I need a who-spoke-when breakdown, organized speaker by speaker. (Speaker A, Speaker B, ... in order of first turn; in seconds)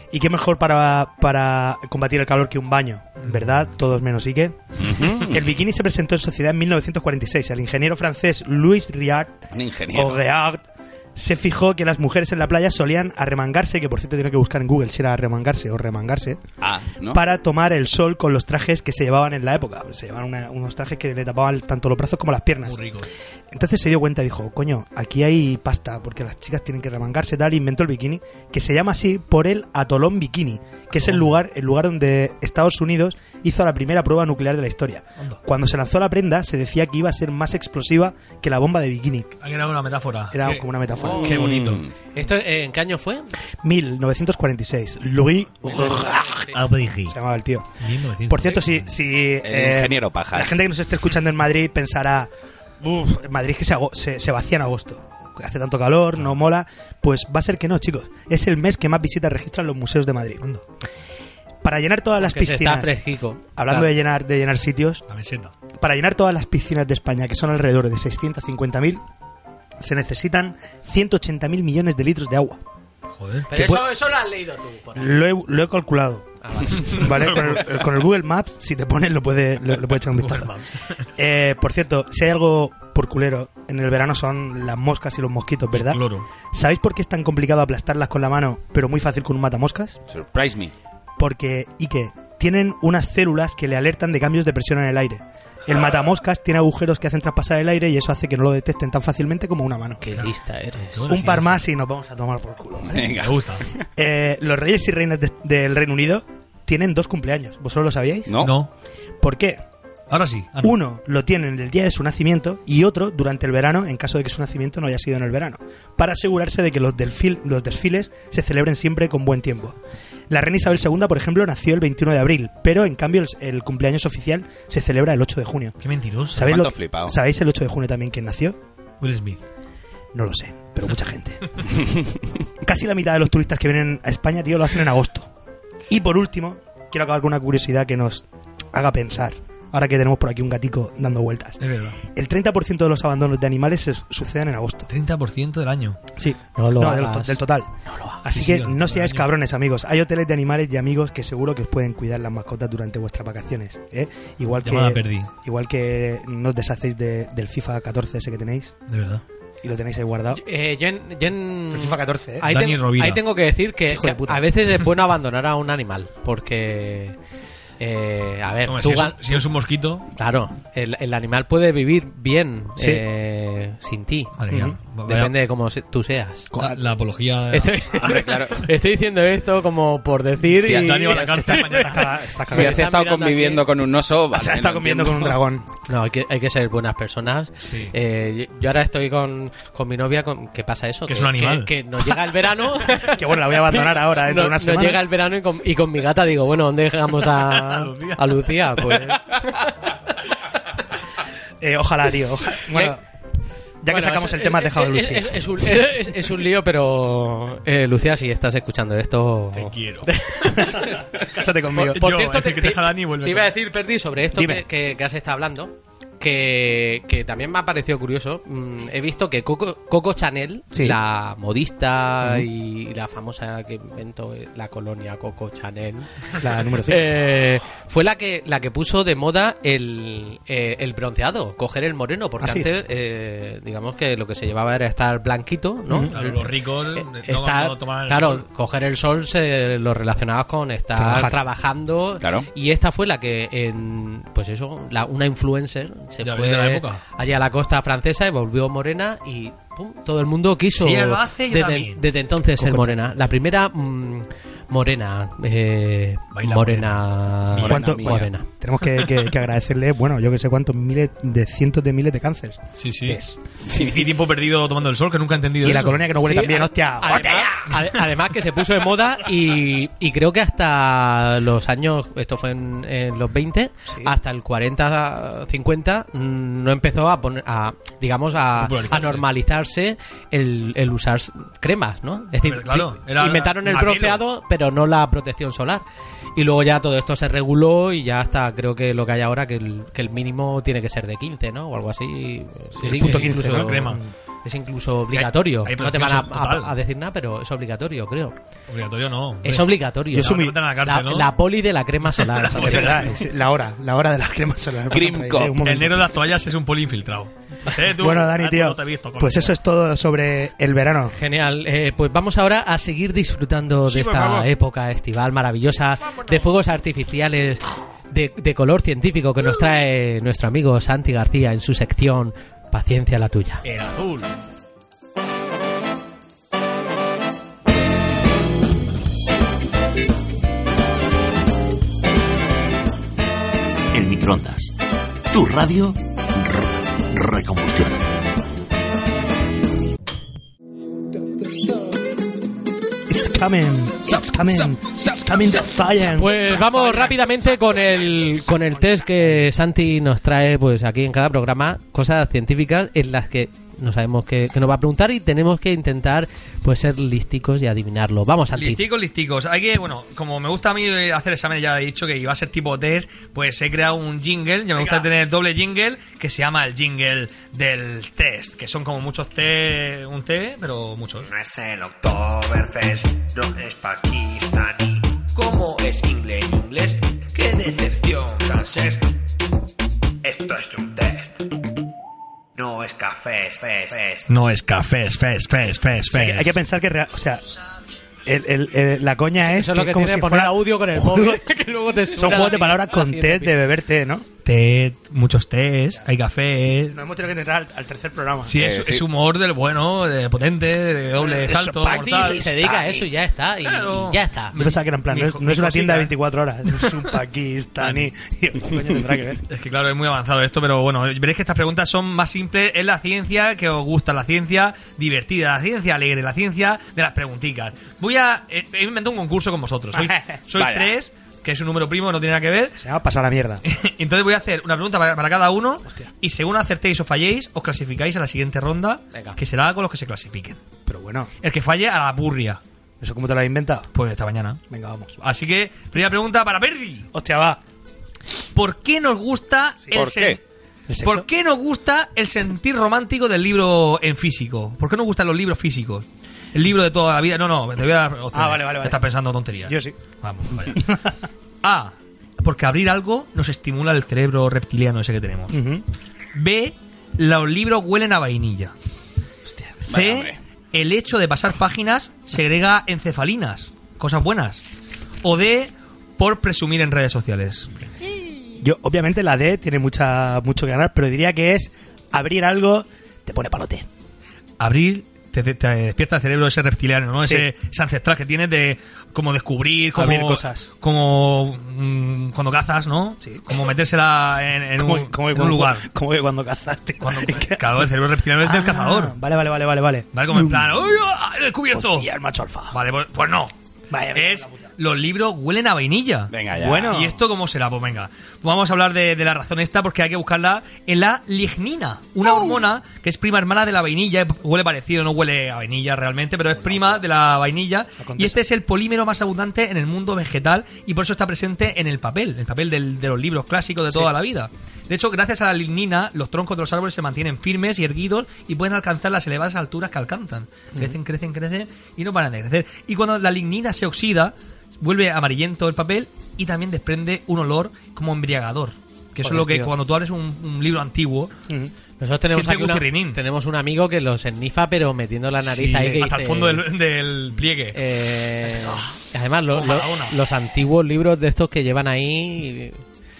Speaker A: 0.1-9.4, 9.9-10.6, 11.2-16.4, 17.1-22.8, 23.5-39.3, 40.3-41.5, 43.6-46.5, 47.1-60.4, 61.6-63.0, 63.5-65.0, 65.8-69.0, 69.8-72.6, 73.5-73.8, 75.0-80.5, 81.2-86.0, 86.5-90.0, 91.2-100.2, 101.1-103.2, 104.0-108.5, 109.2-109.6, 110.6-119.8, 120.3-125.8, 126.3-128.6, 130.1-131.6, 132.6-135.3, 135.9-144.9, 146.2-147.7, 148.2-158.8, 159.6-160.4, 161.7-162.5, 163.9-164.4, 172.8-173.0, 174.5-174.8, 176.5-176.8, 181.2-182.8, 184.3-185.7, 192.9-195.0, 201.6-203.0, 203.8-205.4, 210.5-212.1, 214.3-214.6, 220.7-221.0, 226.4-227.2, 232.4-232.7, 240.9-241.3, 252.6-253.0, 257.6-263.4, 265.6-267.8, 292.8-294.0, 300.1-300.6, 302.5-306.1, 307.8-311.1, 343.1-349.4, 386.1-387.4, 388.2-391.5, 392.1-394.3, 396.9-398.6, 401.2-403.1, 404.5-409.4, 419.9-420.4, 422.8-423.6, 430.9-431.3, 433.0-433.9, 434.7-435.1, 437.1-437.6, 440.9-441.3, 448.3-449.0, 449.6-450.0, 450.6-451.1, 455.5-455.8, 459.4-459.8, 468.6-473.9, 477.2-477.5, 479.9-480.7, 483.2-483.6, 484.8-487.9, 488.4-490.8, 491.7-492.8, 493.9-494.5, 496.6-497.2, 506.6-507.0, 508.0-508.4, 529.2-529.7
Speaker B: 4.8-5.5, 9.5-10.2, 16.6-17.2, 41.2-41.9, 49.4-50.6, 90.1-90.7, 102.9-103.8, 108.3-108.5, 126.4-127.1, 178.0-178.7, 180.5-181.2, 182.5-185.3, 242.2-242.5, 257.6-258.3, 263.6-264.1, 304.9-305.6, 398.6-399.0, 420.6-420.9, 439.9-440.4, 459.9-460.4, 496.3-496.9
Speaker C: 22.6-23.1, 30.9-31.3, 39.4-41.8, 46.5-47.1, 47.8-48.9, 65.1-65.5, 73.2-73.5, 76.8-77.7, 80.1-81.0, 85.7-86.2, 100.9-101.6, 103.1-103.7, 108.4-108.7, 110.1-110.8, 125.8-126.6, 129.0-129.4, 141.6-142.0, 144.9-146.0, 148.3-149.3, 154.6-155.3, 158.9-159.2, 162.5-163.2, 168.7-170.1, 174.4-175.3, 176.6-178.5, 180.7-182.2, 187.6-187.9, 191.1-191.7, 197.2-199.2, 209.5-213.5, 236.1-238.4, 246.2-247.0, 250.7-252.0, 256.3-257.8, 262.8-266.1, 278.6-279.2, 282.4-284.2, 292.8-294.0, 295.1-296.8, 298.7-301.3, 302.1-303.1, 305.6-309.6, 313.9-314.5, 323.6-324.3, 358.5-371.3, 375.4-375.9, 377.3-378.9, 384.3-386.6, 394.4-397.0, 398.4-402.5, 403.6-406.1, 406.7-407.1, 407.8-408.1, 409.5-422.8, 423.6-430.6, 431.4-432.6, 433.9-434.6, 435.2-437.1, 438.5-440.4, 441.0-450.9, 451.6-455.6, 456.3-458.7, 459.9-464.6, 465.2-467.7, 474.6-485.9, 487.0-489.1, 490.1-492.1, 492.7-493.5, 494.1-531.3, 532.3-533.2, 535.4-537.8, 538.4-538.9, 539.5-540.1
Speaker D: 42.1-43.3, 45.7-46.5, 62.2-63.9, 73.5-75.2, 76.4-77.0, 100.0-101.1, 146.6-148.2, 160.3-167.2, 167.8-169.4, 170.1-174.3, 175.1-176.5, 177.5-183.6, 185.9-199.7, 202.7-202.9, 203.9-210.9, 211.7-258.4, 266.2-285.8, 286.4-298.3, 299.4-303.1, 311.1-323.6, 346.1-358.8, 389.4-393.6, 401.8-404.5, 429.1-429.4, 532.0-536.6, 537.7-542.8
Speaker E: 333.9-334.7, 335.3-338.2
Speaker F: 371.2-377.0, 378.4-379.1, 380.2-381.5, 382.6-384.3